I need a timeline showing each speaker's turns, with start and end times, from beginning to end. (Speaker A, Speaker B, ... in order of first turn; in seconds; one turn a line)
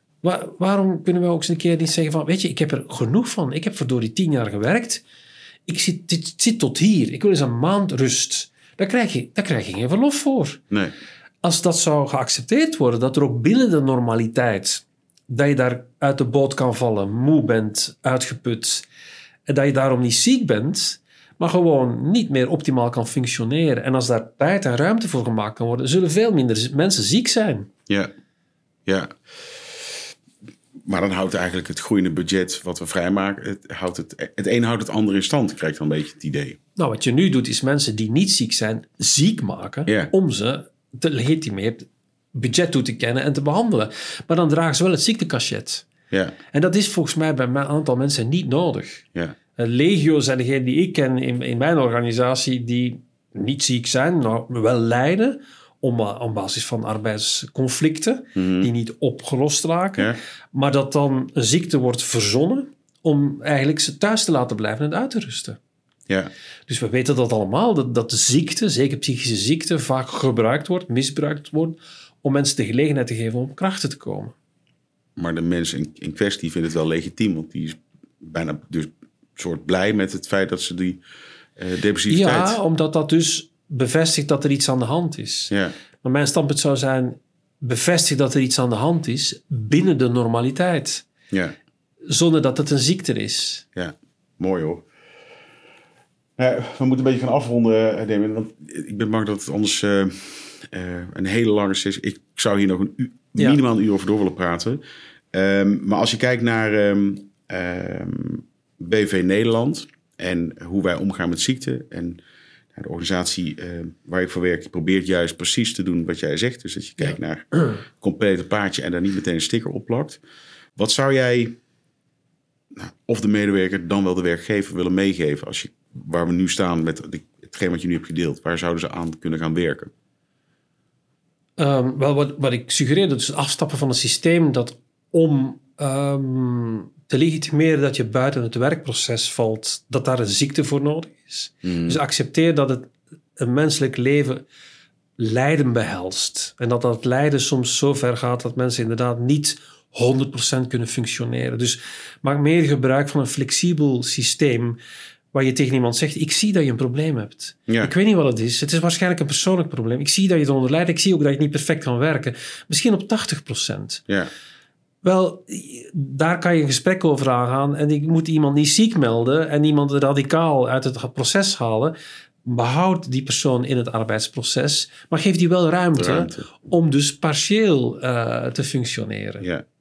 Speaker A: 0.2-5.0
Speaker A: 5.7-10.6
Speaker A: 11.4-18.9
Speaker A: 19.5-27.7
Speaker B: 28.9-29.2
Speaker B: 30.8-36.6
Speaker A: 36.8-45.9
Speaker B: 39.9-40.1
Speaker B: 46.1-46.4
Speaker A: 46.5-49.0
Speaker A: 49.6-65.6
Speaker B: 58.4-58.7
Speaker A: 66.7-74.3
Speaker B: 75.2-81.0
Speaker B: 81.6-82.6
Speaker A: 82.1-85.5
Speaker A: 86.0-91.0
Speaker B: 91.3-91.6
Speaker A: 92.1-93.7
Speaker B: 93.8-94.9
Speaker B: 96.4-104.8
Speaker B: 105.3-112.2
Speaker B: 112.7-120.2
Speaker B: 120.8-121.5
Speaker B: 122.7-129.9
Speaker A: 131.6-144.4
Speaker B: 141.6-142.0
Speaker A: 145.2-154.8
Speaker A: 155.3-164.0
Speaker A: 165.0-179.5
Speaker B: 176.0-176.5